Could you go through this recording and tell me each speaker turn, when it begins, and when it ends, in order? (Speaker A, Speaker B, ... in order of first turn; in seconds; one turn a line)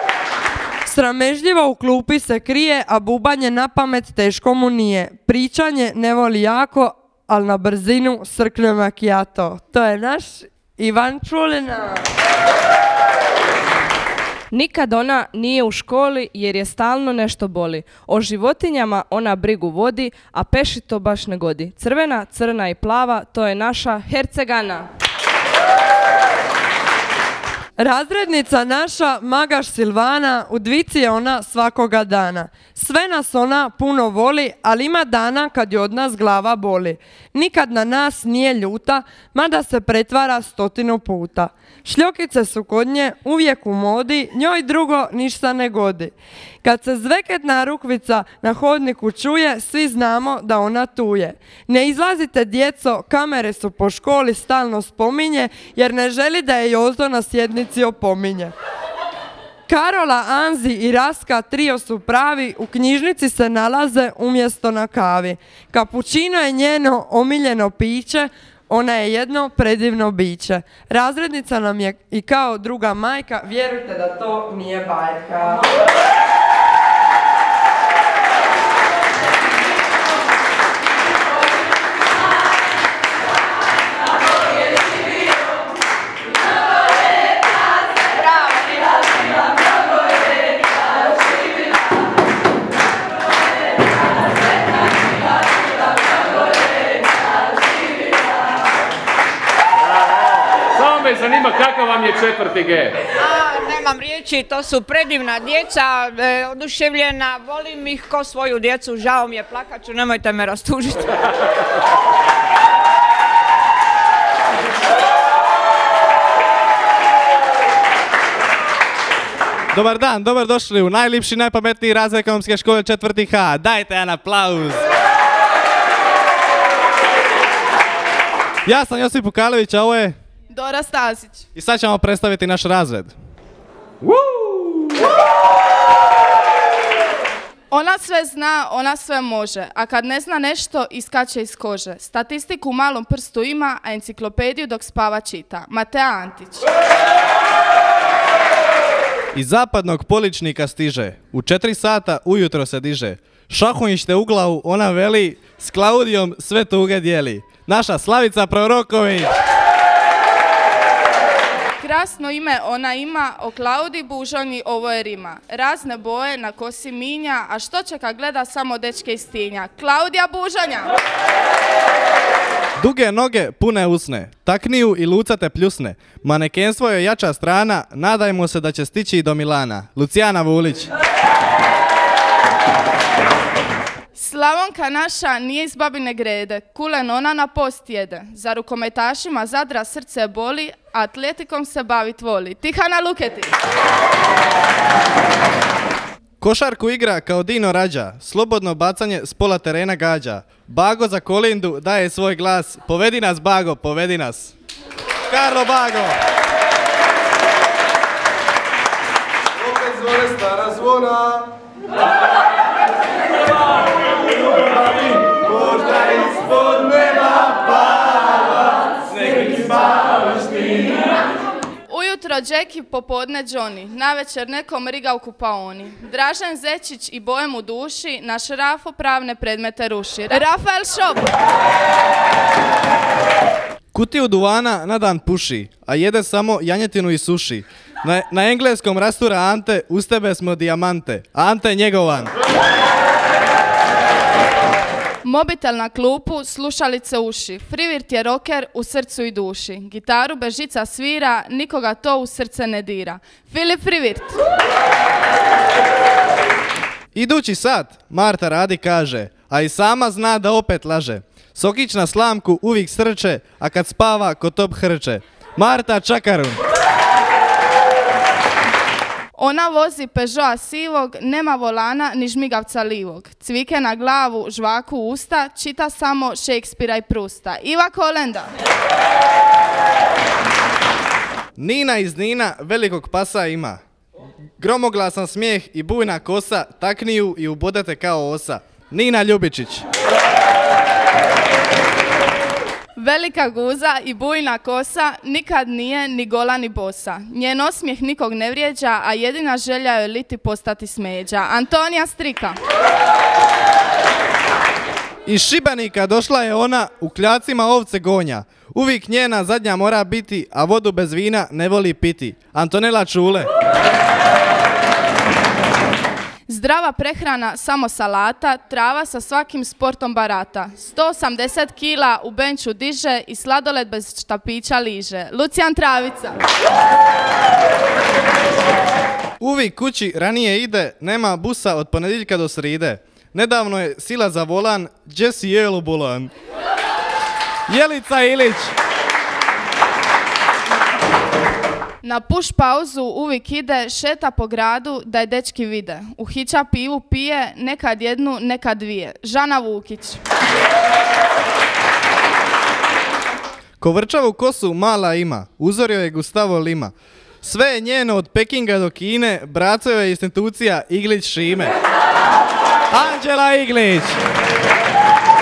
Speaker A: 0.8-12.0
Speaker B: 14.5-24.9
Speaker A: 27.8-58.5
Speaker A: 59.7-75.6
Speaker C: 103.2-111.1
Speaker D: 119.7-124.8
Speaker D: 128.7-130.2
Speaker E: 130.5-131.4
Speaker D: 131.5-133.1
Speaker E: 137.7-146.7
Speaker D: 149.3-159.3
Speaker E: 161.8-170.9
Speaker D: 172.8-180.9
Speaker E: 184.1-193.5
Speaker D: 196.4-204.5
Speaker D: 205.3-206.2
Speaker D: 209.8-211.4
Speaker D: 215.6-217.5
Speaker D: 219.3-219.9
Speaker E: 221.9-231.3
Speaker D: 233.9-242.3
Speaker E: 245.2-254.3
Speaker D: 257.1-266.6
Speaker E: 269.4-278.5
Speaker D: 281.6-283.8
Speaker D: 284.6-289.9
Speaker E: 293.0-302.6
Speaker D: 305.2-313.5
Speaker E: 316.5-326.4
Speaker D: 329.4-336.3
Speaker D: 337.7-338.7
Speaker E: 342.0-350.2
Speaker D: 353.8-361.7
Speaker D: 362.9-364.2